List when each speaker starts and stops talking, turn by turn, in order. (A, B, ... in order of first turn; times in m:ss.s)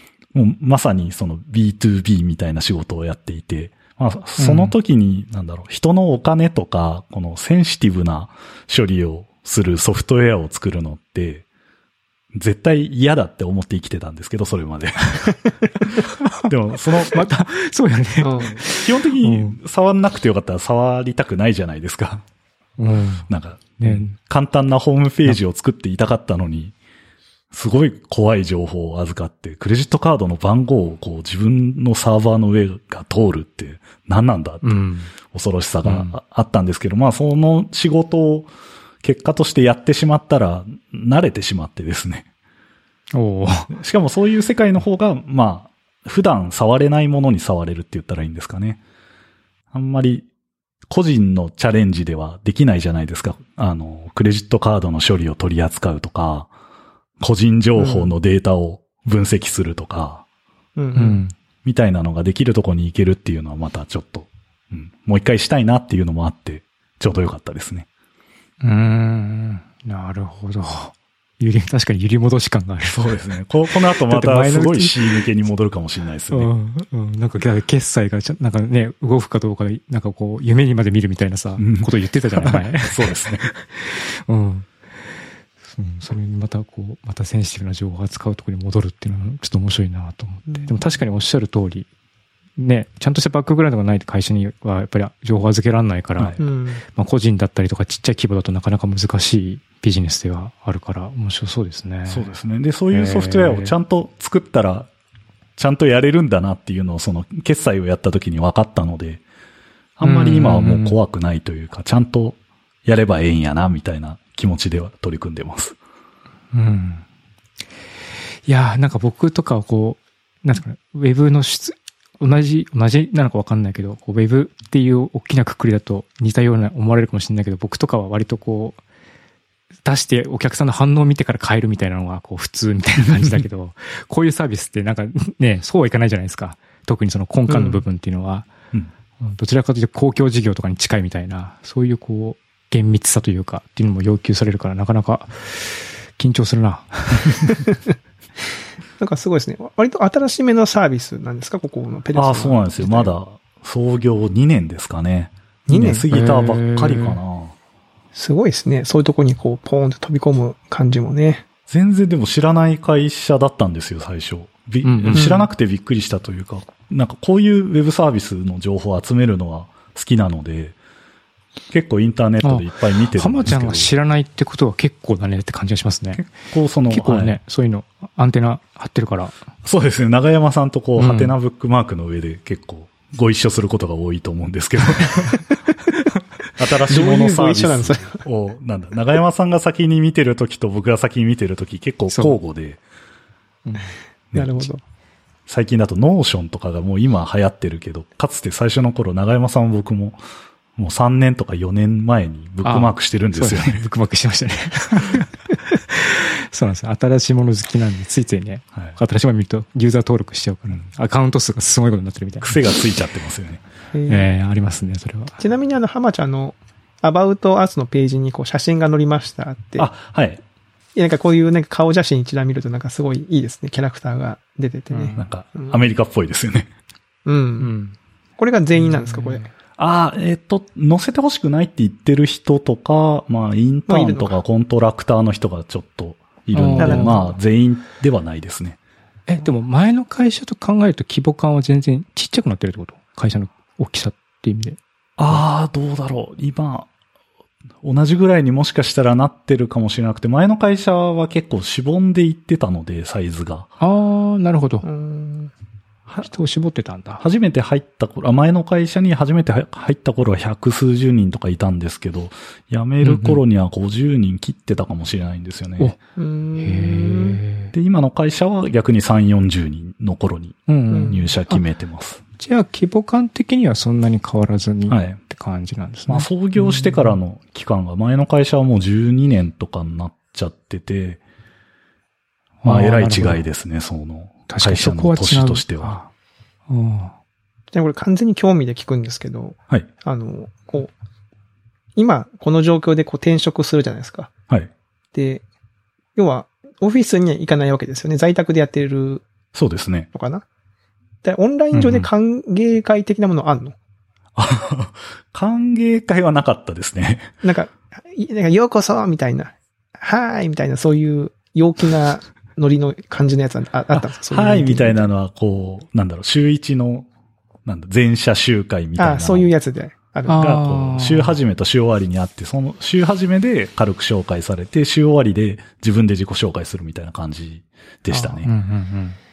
0:00.3-0:11.4 A
0:04.4-0:04.7 B
0:12.3-0:17.3 A
0:17.0-0:19.6 B
0:18.2-0:18.6 C
0:18.4-0:22.2 A
0:22.8-0:23.3 B
0:23.3-0:26.8 A
0:23.8-0:24.2 B
0:27.5-0:38.5 A
0:34.6-0:35.1 B
0:35.8-0:36.2 B
0:39.0-0:42.3 A
0:43.1-0:43.7 B
0:43.7-0:48.8 A
0:49.7-0:50.3 A
0:50.9-0:56.5 A
0:57.2-1:00.2 A
0:57.8-0:58.1 C
1:00.8-1:01.2 C
1:01.0-1:01.4 B
1:01.6-1:07.9 A
1:08.6-1:13.1 B
1:12.8-1:16.5 A
1:14.0-1:15.2 B
1:16.3-1:23.2 B
1:21.6-1:21.9 A
1:22.4-1:23.5 A
1:23.7-1:24.7 B
1:25.8-1:31.9 B
1:30.5-1:30.7 C
1:32.6-1:42.4 B
1:36.4-1:36.8 C
1:42.1-1:44.9 A
1:42.9-1:43.7 B
1:45.6-1:49.2 A
1:50.0-1:55.8 A
1:50.0-1:51.0 B
1:56.5-1:57.0 B
1:58.5-2:08.8 B
2:09.8-2:18.5 B
2:17.5-2:17.8 C
2:19.2-2:27.6 B
2:27.5-2:27.8 C
2:29.0-2:33.1 C
2:32.1-2:37.5 A
2:35.7-2:36.0 C
2:36.1-2:37.2 B
2:38.1-2:41.5 C
2:41.7-2:50.8 A
2:44.8-2:45.3 B
2:45.1-2:45.5 C
2:51.7-2:53.9 A
2:52.4-2:56.2 B
2:56.2-2:57.4 A
2:56.9-2:59.4 B
2:59.6-3:05.4 A
3:01.0-3:01.3 B
3:06.6-3:12.8 A
3:06.9-3:08.2 C
3:12.1-3:12.4 B
3:13.6-3:13.9 B
3:14.3-3:14.7 A
3:14.4-3:14.8 C
3:15.5-3:20.2 A
3:20.8-3:23.8 A
3:22.6-3:32.6 B
3:32.4-3:33.6 A
3:33.9-3:34.3 C
3:34.1-3:35.4 B
3:35.4-3:39.9 C
3:39.8-3:40.4 A
3:41.0-3:45.8 C
3:44.9-3:45.3 B
3:45.2-3:46.7 A
3:47.3-3:47.8 C
3:47.6-3:47.9 B
3:48.4-3:49.4 C
3:48.8-3:49.5 B
3:49.8-3:58.8 A
3:53.9-3:54.4 C
3:56.5-3:57.2 B
3:56.8-3:57.4 C
3:59.3-4:04.8 B
4:05.2-4:06.9 A
4:07.8-4:13.7 A
4:13.8-4:14.9 B
4:14.8-4:15.5 C
4:16.2-4:17.2 B
4:17.2-4:26.0 A
4:23.0-4:23.4 B
4:26.2-4:27.4 C
4:26.6-4:27.7 B
4:27.7-4:32.2 A
4:30.7-4:31.6 B
4:30.9-4:31.3 C
4:32.4-4:37.1 B
4:34.9-4:35.2 A
4:36.1-4:41.2 A
4:42.6-4:43.4 B
4:42.6-4:46.0 A
4:44.5-4:46.1 B
4:46.7-4:47.1 B
4:47.7-4:50.9 C
4:52.0-4:54.3 C
4:55.1-4:55.4 C
4:56.2-4:59.3 C
4:59.5-5:00.1 A
5:00.1-5:00.4 C
5:01.2-5:03.8 C
5:01.7-5:02.1 B
5:04.4-5:07.3 A
5:07.4-5:15.0 C
5:14.3-5:17.1 A
5:17.6-5:19.5 A
5:19.0-5:20.5 C
5:20.3-5:21.4 B
5:20.4-5:28.5 A
5:28.1-5:28.4 C
5:28.4-5:29.2 B